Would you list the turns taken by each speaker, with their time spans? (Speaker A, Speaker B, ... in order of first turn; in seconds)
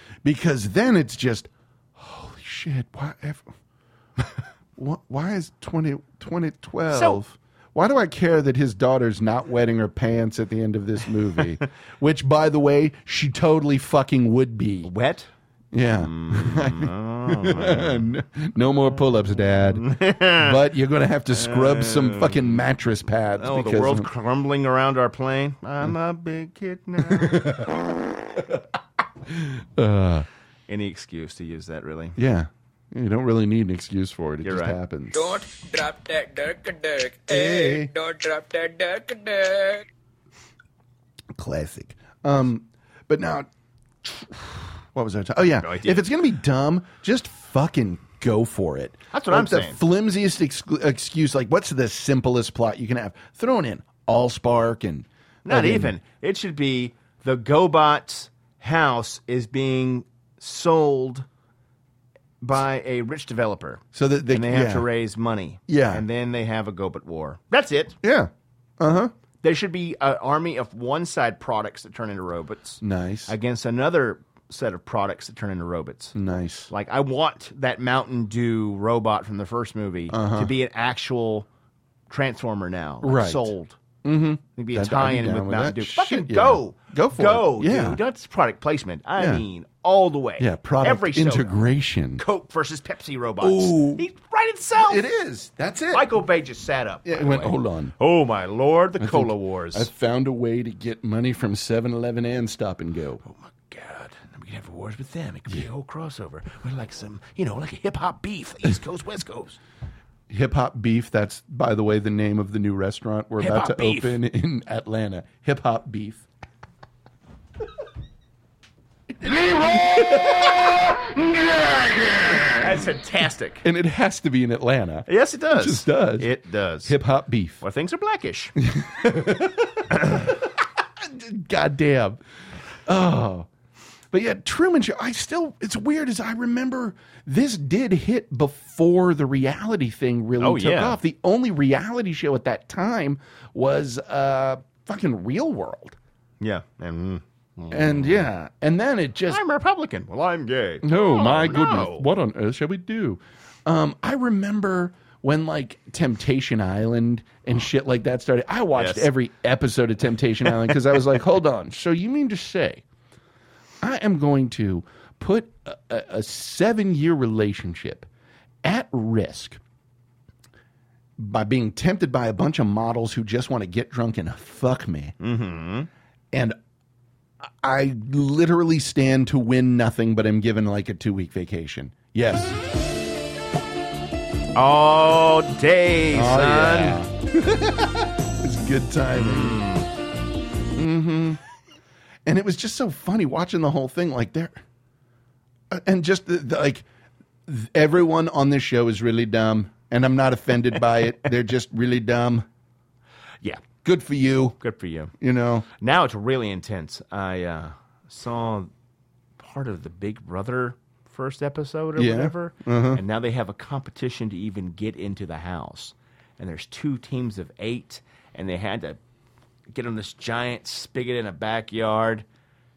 Speaker A: 0.2-3.5, 4.8-14.9, 15.7-24.1, 27.1-27.8, 28.4-28.6, 29.3-30.3, 32.2-35.4, 37.3-37.9, 41.4-43.5, 44.0-55.9, 63.9-64.9, 65.7-66.0, 68.0-69.1, 72.8-73.3, 76.1-76.7, 80.1-80.5, 83.0-88.0, 89.2-89.4, 90.4-92.2, 93.4-94.0, 94.8-96.1, 97.0-98.0, 99.0-103.2, 110.3-116.2, 119.2-120.5, 123.6-126.3, 126.8-127.6, 128.6-132.2, 132.9-133.5, 134.1-146.0, 147.7-149.4, 150.8-162.8, 163.8-168.1, 168.6-169.6, 171.2-175.1, 176.3-176.6, 177.5-182.6, 186.1-189.6, 190.8-191.4, 192.3-194.6, 195.7-196.8, 197.5-202.5, 203.8-204.6, 205.2-205.7, 212.0-213.0
Speaker B: 6.9-7.2, 14.8-15.3, 15.9-18.1, 19.5-20.6, 21.3-22.6, 23.4-27.5, 30.7-32.2, 34.4-34.8, 45.6-46.1, 49.1-49.8, 55.5-61.3, 62.4-68.0, 69.4-76.2, 76.7-81.5, 82.1-83.8, 84.6-91.6, 92.2-95.1, 95.9-99.9, 103.2-109.6, 113.4-114.2, 122.5-123.7, 125.1-127.0, 127.6-128.6, 140.4-141.0, 146.4-148.3, 149.3-152.1, 158.8-159.1, 175.2-175.9, 184.6-187.0, 189.2-189.9, 204.6-205.1, 205.8-208.7, 209.4-219.0, 219.7-222.2
Speaker C: 35.1-39.8